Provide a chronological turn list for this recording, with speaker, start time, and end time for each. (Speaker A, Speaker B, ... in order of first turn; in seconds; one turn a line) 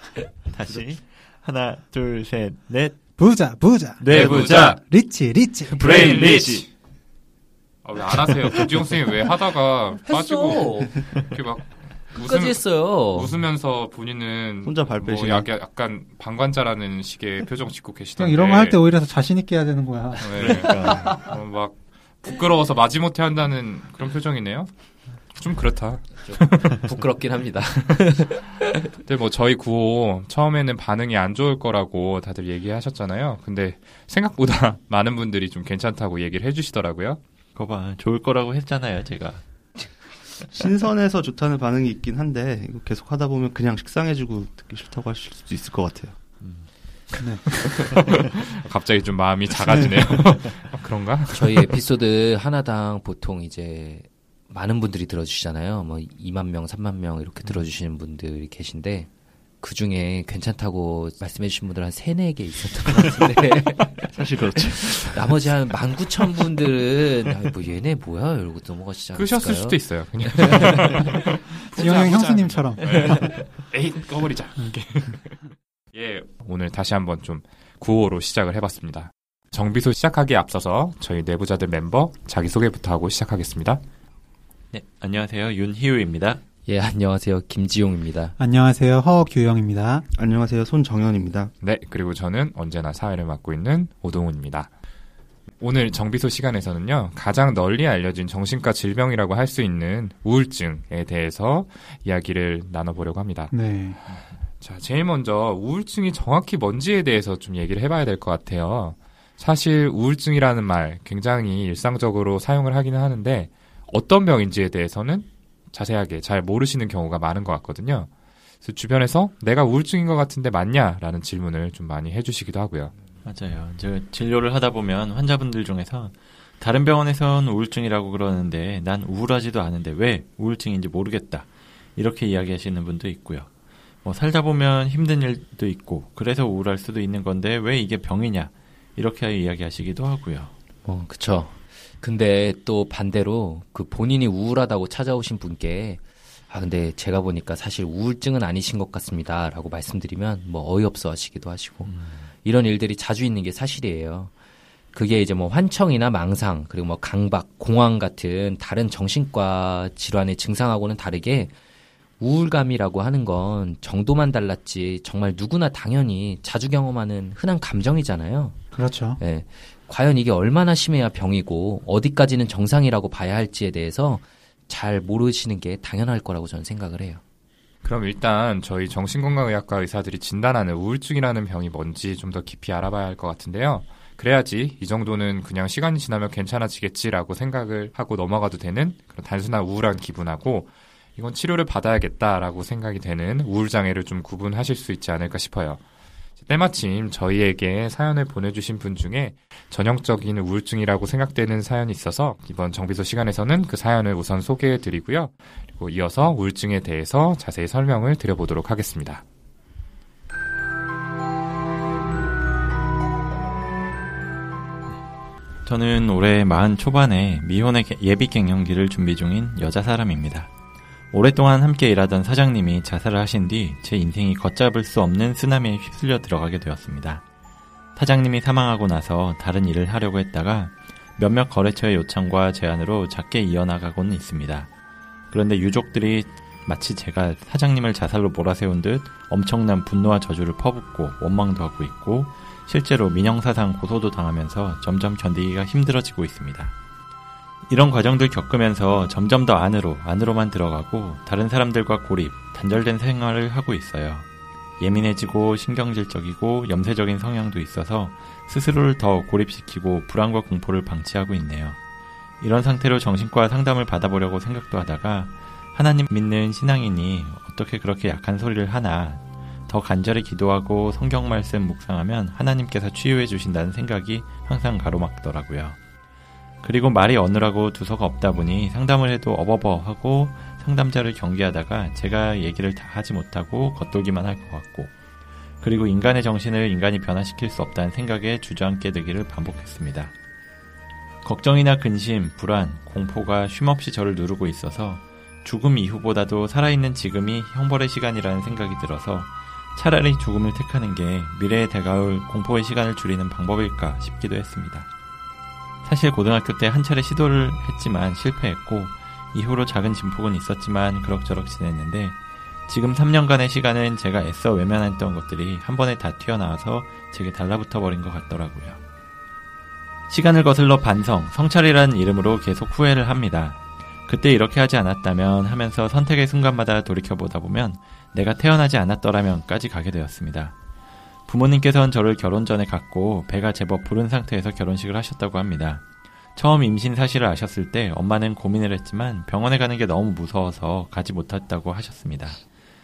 Speaker A: 0.5-3.0
Speaker B: 3.2-5.9
Speaker A: 4.0-4.8
Speaker C: 4.1-4.8
Speaker D: 4.1-4.5
Speaker A: 5.7-6.7
Speaker D: 5.7-6.7
Speaker C: 5.9-6.6
Speaker C: 7.8-18.8
Speaker E: 10.0-11.0
Speaker E: 12.1-13.4
Speaker D: 14.6-15.5
Speaker B: 18.2-21.1
Speaker C: 20.2-24.7
Speaker A: 20.3-21.1
Speaker C: 25.3-26.8
Speaker E: 26.2-28.8
Speaker C: 29.0-37.2
Speaker A: 37.5-39.4
Speaker D: 40.4-46.2
Speaker C: 47.8-51.7
Speaker E: 51.3-59.1
Speaker E: 59.6-64.1
Speaker D: 64.1-65.3
Speaker E: 64.9-71.0
Speaker C: 69.1-83.8
Speaker B: 71.7-73.4
Speaker A: 84.7-86.4
Speaker E: 86.7-88.3
Speaker B: 88.4-90.1
Speaker D: 90.1-91.5
Speaker C: 91.6-94.7
Speaker C: 95.6-103.5
Speaker B: 103.5-104.0
Speaker C: 104.6-118.1
Speaker C: 118.6-122.9
Speaker A: 123.2-133.5
Speaker A: 134.0-140.5
Speaker E: 140.8-154.3
Speaker A: 151.8-152.3
Speaker E: 154.9-161.5
Speaker E: 162.2-168.6
Speaker B: 168.7-169.2
Speaker E: 169.2-177.2
Speaker C: 177.8-195.8
Speaker C: 196.4-209.2
Speaker A: 215.6-220.5
Speaker A: 221.1-227.2
Speaker A: 227.9-234.7
Speaker A: 235.3-246.7
Speaker A: 247.7-254.3
Speaker A: 254.8-261.8
Speaker A: 262.4-275.8
Speaker A: 276.6-284.9
Speaker A: 285.6-290.1
Speaker A: 291.2-304.9
Speaker A: 305.8-318.8
Speaker A: 320.1-330.5
Speaker A: 331.3-342.4